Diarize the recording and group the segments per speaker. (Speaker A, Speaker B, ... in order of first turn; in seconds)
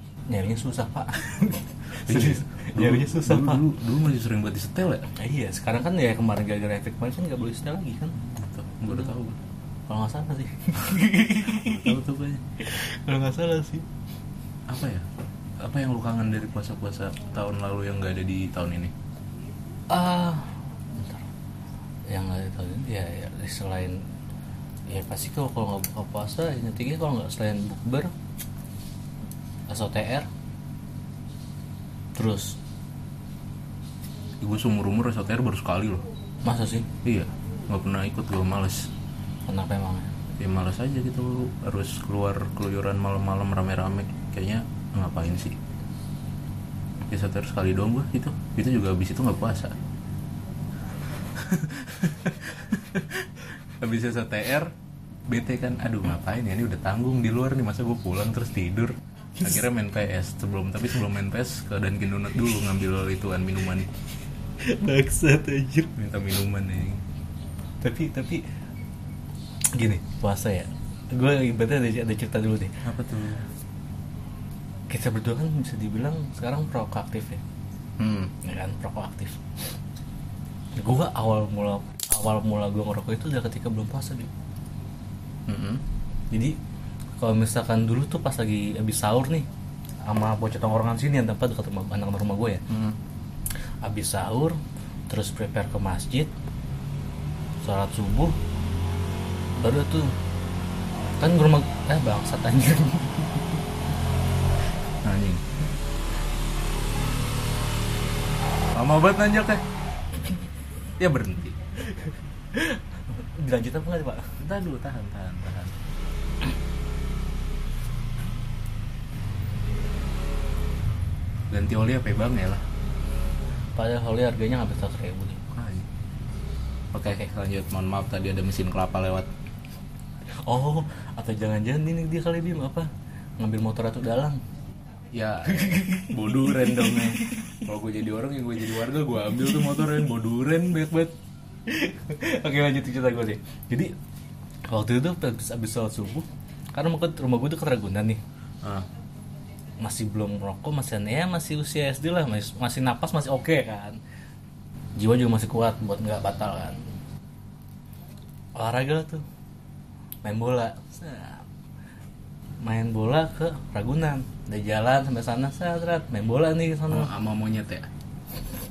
Speaker A: 0.3-3.6, 5.2-8.2, 9.9-12.0, 12.6-13.9, 19.9-21.3, 22.1-24.0, 24.9-28.1, 29.7-30.3, 32.1-32.6, 36.4-36.9, 39.5-40.1, 64.6-65.9, 67.8-68.4, 69.8-72.7, 74.9-77.4, 78.4-79.4, 80.8-84.3, 86.3-86.5, 87.2-89.5, 90.1-92.6, 93.8-96.3, 97.6-98.4, 99.6-100.1, 101.2-103.6, 111.9-114.3, 123.8-125.4, 130.4-134.4, 135.5-137.3, 141.7-143.9, 144.7-148.2, 149.8-154.0, 154.9-156.8, 158.6-159.2, 160.2-161.4, 162.6-167.1
Speaker B: 2.0-5.1, 8.2-9.4, 11.5-12.4, 14.7-15.1, 15.6-18.9, 34.4-36.1, 37.0-38.9, 40.4-45.6, 47.1-49.7, 51.3-54.7, 55.3-63.9, 66.0-67.0, 72.8-73.5, 78.0-78.3, 85.5-85.8, 92.7-93.0, 105.0-105.4, 108.7-109.6, 111.0-111.6, 114.4-115.7, 121.5-122.6, 125.5-125.9, 126.9-129.3, 135.1-141.1, 148.6-148.9, 166.9-167.9